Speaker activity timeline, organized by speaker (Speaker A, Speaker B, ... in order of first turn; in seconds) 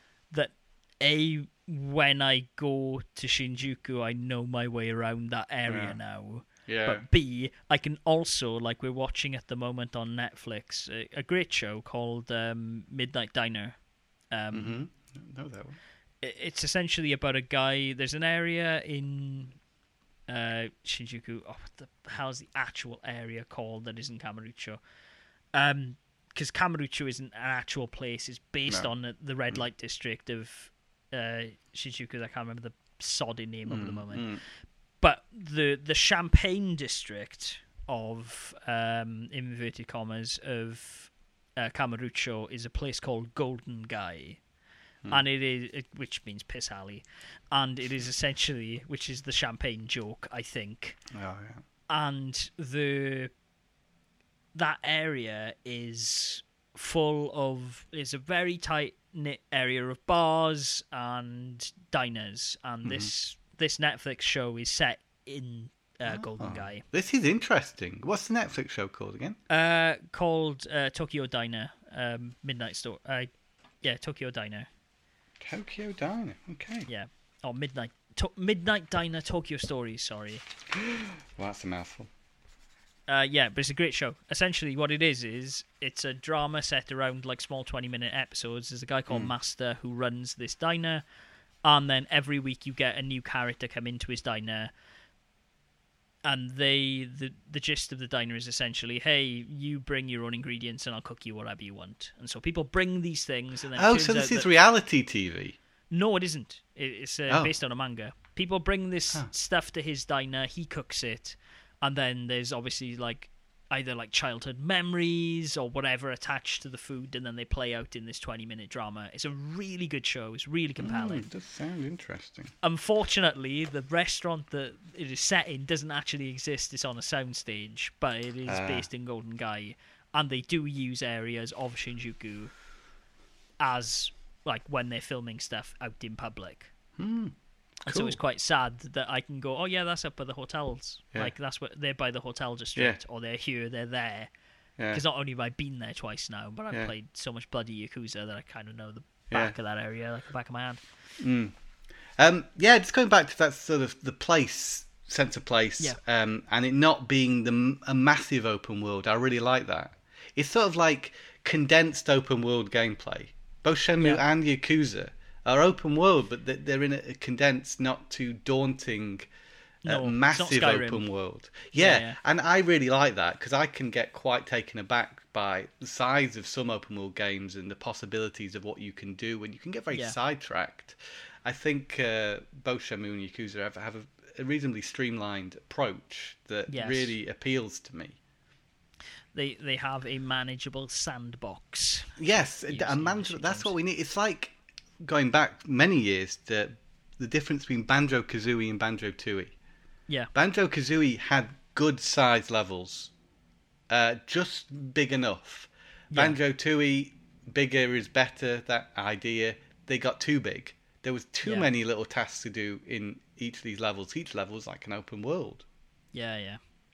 Speaker A: 0.3-13.8, 14.3-14.8, 16.2-19.6, 20.3-24.8, 25.5-34.4, 35.0-44.4, 45.1-51.0, 51.9-53.3, 54.5-66.8, 69.5-73.3, 73.8-74.7, 76.9-80.4, 83.1-91.0, 91.7-94.7, 96.2-104.5, 105.9-121.3, 122.6-132.5, 133.6-136.7, 137.8-144.3, 144.9-150.8, 169.8-171.1, 171.8-172.2, 186.7-187.1, 189.3-193.7, 206.1-206.4, 211.4-211.7, 216.1-216.6
Speaker B: 5.7-6.0, 6.7-7.0, 14.5-15.8, 33.7-34.4, 51.1-51.6, 62.8-63.1, 66.1-69.4, 75.4-76.9, 80.7-82.1, 103.8-105.6, 120.8-122.5, 128.5-128.9, 137.0-137.4, 137.9-138.2, 151.2-151.6, 152.2-169.2, 169.9-188.2, 192.2-199.5, 200.3-203.1, 203.9-215.7